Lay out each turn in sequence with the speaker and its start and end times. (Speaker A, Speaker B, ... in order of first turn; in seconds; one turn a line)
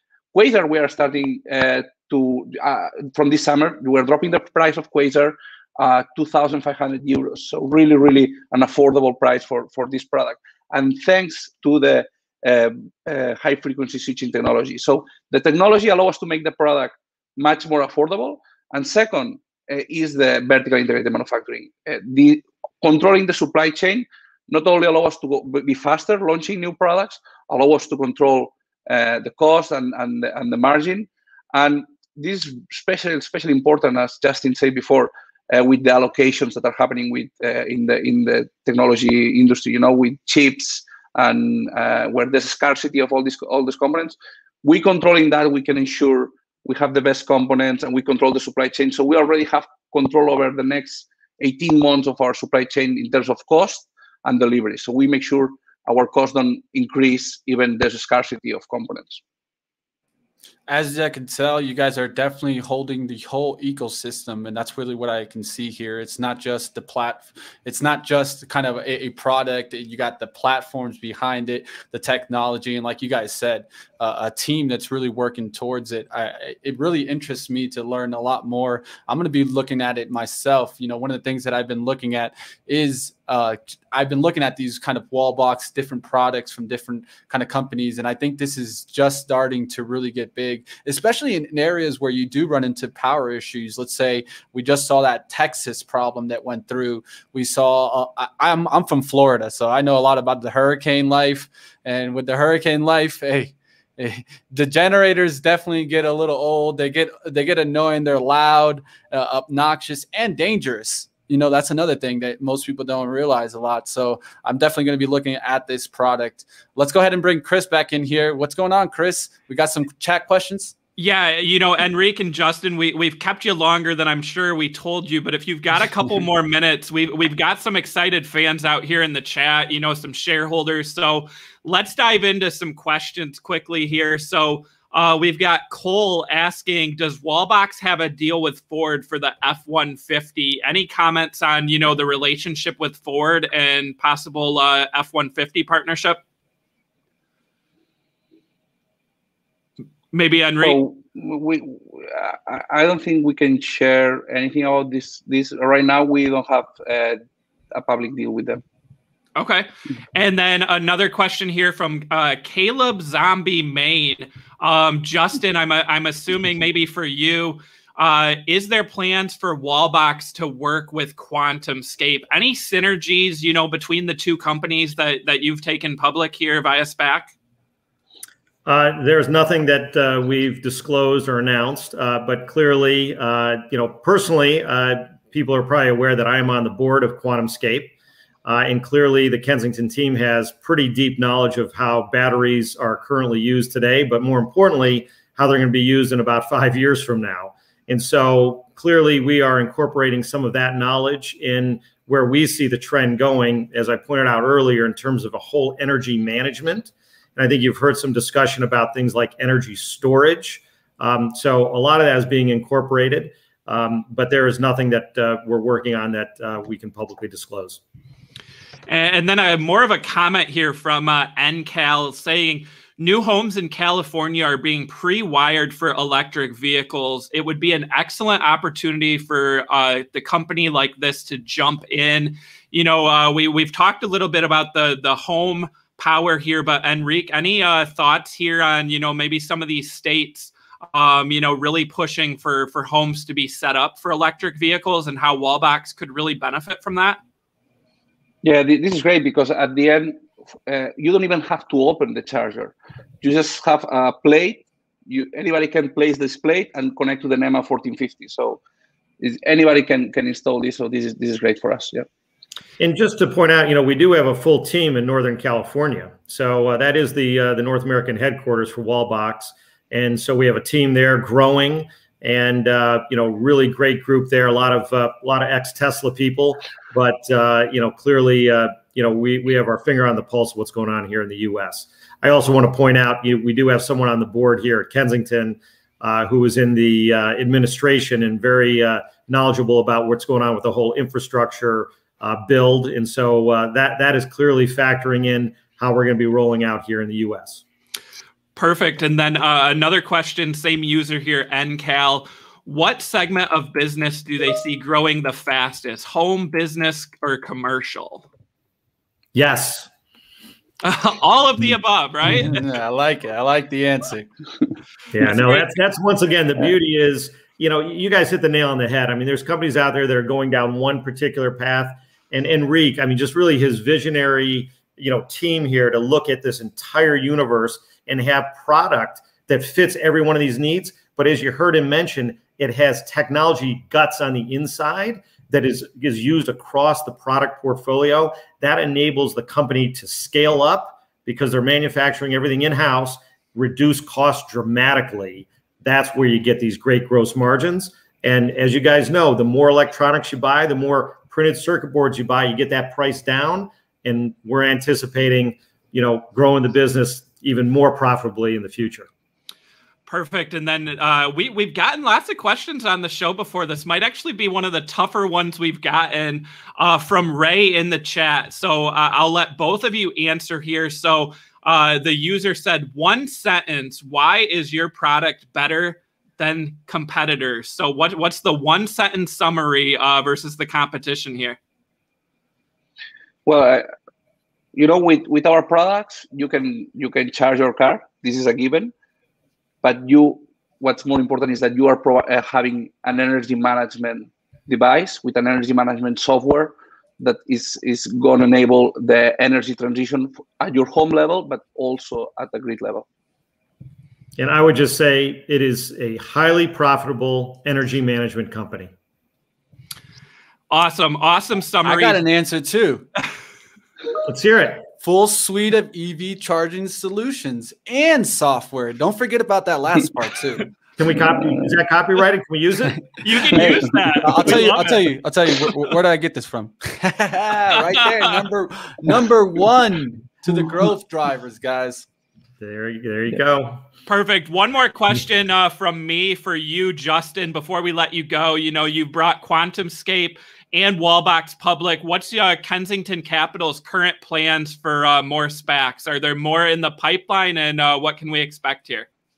Speaker A: 0.3-59.2
Speaker B: 60.7-120.8
Speaker C: 121.0-146.2
Speaker C: 150.1-150.8
Speaker A: 150.6-157.2
Speaker A: 157.7-158.6
Speaker C: 159.4-177.3
Speaker D: 178.7-187.9
Speaker D: 188.4-217.8
Speaker C: 218.9-247.2
Speaker A: 248.4-258.6
Speaker A: 259.2-262.1
Speaker D: 262.8-297.6
Speaker C: 298.6-308.2
Speaker D: 309.3-309.9
Speaker C: 310.8-312.7
Speaker B: 312.3-314.3
Speaker D: 315.1-359.1
Speaker C: 315.4-315.7
Speaker C: 360.1-381.6
Speaker A: 383.5-383.9
Speaker A: 384.8-388.9
Speaker A: 389.8-403.1
Speaker D: 404.4-408.9
Speaker C: 410.7-412.2
Speaker B: 411.8-413.1
Speaker D: 414.2-414.9
Speaker B: 415.0-420.7
Speaker D: 421.0-425.1
Speaker C: 423.2-425.0
Speaker B: 423.6-432.1
Speaker C: 427.8-428.4
Speaker D: 432.6-433.8
Speaker C: 434.1-449.1